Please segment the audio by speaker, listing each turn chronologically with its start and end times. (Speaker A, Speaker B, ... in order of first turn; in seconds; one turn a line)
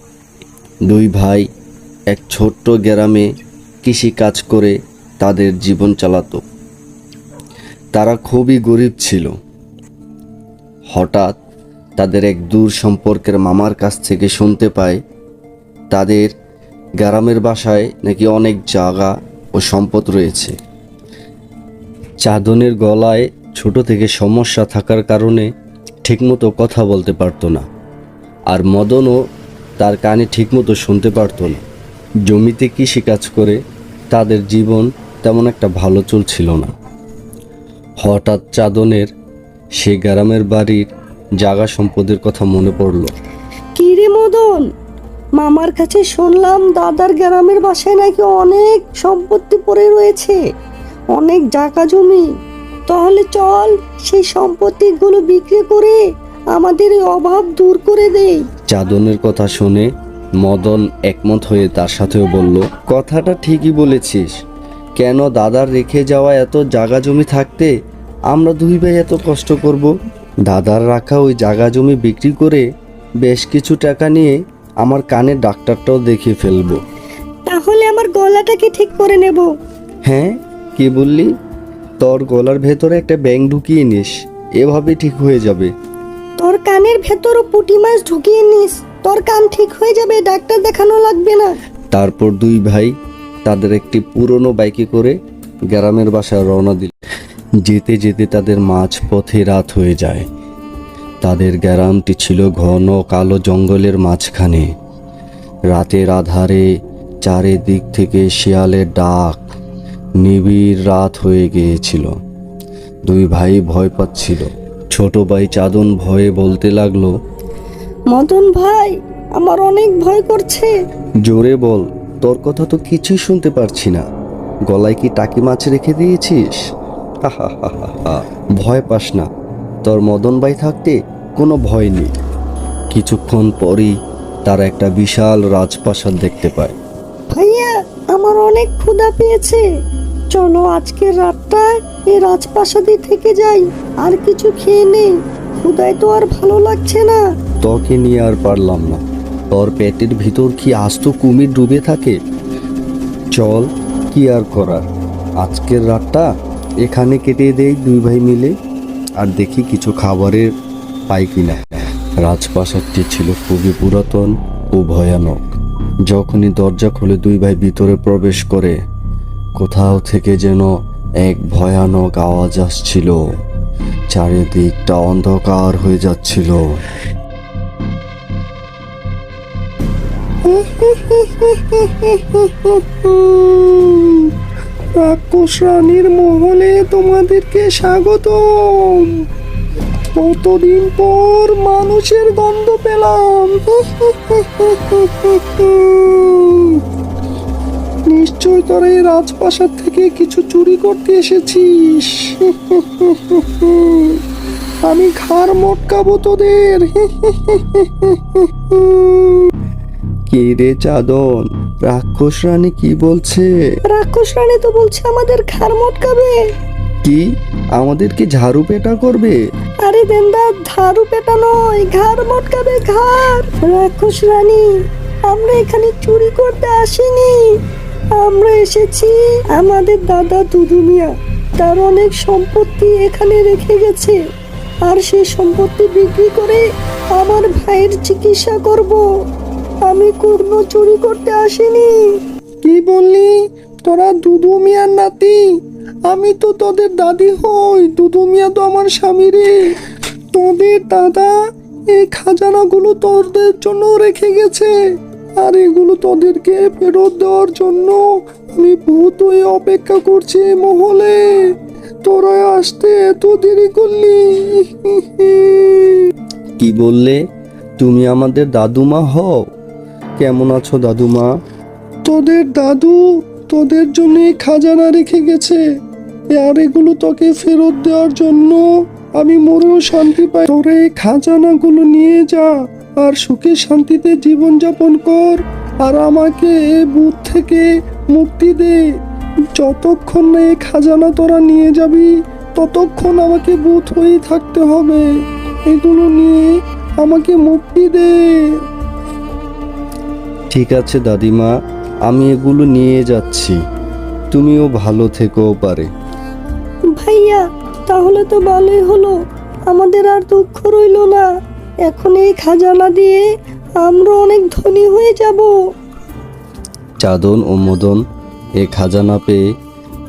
Speaker A: 0.8-1.5
Speaker A: 2.1-3.3
Speaker A: 3.8-6.4
Speaker A: 7.9-9.3
Speaker A: 10.9-11.4
Speaker A: 12.0-15.0
Speaker A: 15.9-16.3
Speaker A: 17.0-20.6
Speaker A: 22.2-25.5
Speaker A: 26.0-27.6
Speaker A: 28.5-29.2
Speaker A: 29.8-31.6
Speaker A: 32.3-36.7
Speaker A: 38.0-39.1
Speaker A: 39.8-40.9
Speaker A: 41.4-43.1
Speaker B: 43.8-44.6
Speaker B: 45.4-50.4
Speaker B: 51.1-52.2
Speaker B: 52.9-56.0
Speaker B: 56.5-58.5
Speaker A: 58.7-59.9
Speaker A: 60.4-64.4
Speaker A: 65.0-67.7
Speaker A: 68.3-69.9
Speaker A: 70.5-72.6
Speaker A: 73.2-76.8
Speaker B: 77.5-79.5
Speaker A: 80.0-81.3
Speaker A: 82.0-85.7
Speaker B: 86.4-91.5
Speaker A: 91.9-95.2
Speaker A: 95.7-96.9
Speaker A: 97.6-100.2
Speaker A: 101.2-104.7
Speaker A: 105.7-106.7
Speaker A: 107.2-109.4
Speaker A: 110.2-112.1
Speaker A: 113.0-117.1
Speaker B: 118.1-120.7
Speaker A: 121.2-124.0
Speaker A: 124.7-126.7
Speaker A: 127.2-129.3
Speaker A: 129.8-132.1
Speaker A: 132.9-136.8
Speaker B: 137.3-139.6
Speaker B: 140.3-147.2
Speaker A: 147.6-152.2
Speaker A: 153.3-154.9
Speaker A: 155.4-156.3
Speaker A: 156.8-158.5
Speaker A: 159.2-160.5
Speaker A: 161.1-168.8
Speaker A: 169.6-173.2
Speaker A: 174.1-176.8
Speaker C: 180.4-184.3
Speaker C: 184.9-189.2
Speaker C: 190.1-196.8
Speaker C: 198.1-204.2
Speaker C: 204.8-209.5
Speaker A: 210.3-211.3
Speaker A: 211.8-213.5
Speaker B: 213.9-216.4
Speaker A: 217.0-219.4
Speaker B: 219.8-224.7
Speaker B: 225.3-227.6
Speaker B: 228.2-234.2
Speaker B: 234.8-236.6
Speaker B: 237.1-239.0
Speaker B: 239.8-242.2
Speaker C: 242.6-243.3
Speaker C: 243.8-245.5
Speaker C: 246.1-249.6
Speaker C: 250.3-251.3
Speaker C: 251.9-254.7
Speaker C: 255.4-258.0
Speaker C: 258.5-261.4
Speaker C: 262.0-266.1
Speaker A: 266.6-267.2
Speaker A: 267.8-269.4
Speaker A: 270.2-271.3
Speaker C: 272.0-275.6
Speaker C: 276.3-278.6
Speaker C: 279.2-288.9
Speaker C: 289.6-295.1
Speaker C: 295.7-296.5
Speaker C: 297.0-298.5
Speaker A: 300.5-301.5
Speaker A: 302.1-303.6
Speaker A: 304.3-305.9
Speaker B: 306.9-309.1
Speaker B: 309.7-311.2
Speaker B: 311.9-313.2
Speaker B: 313.8-315.5
Speaker A: 317.0-318.0
Speaker A: 318.6-319.4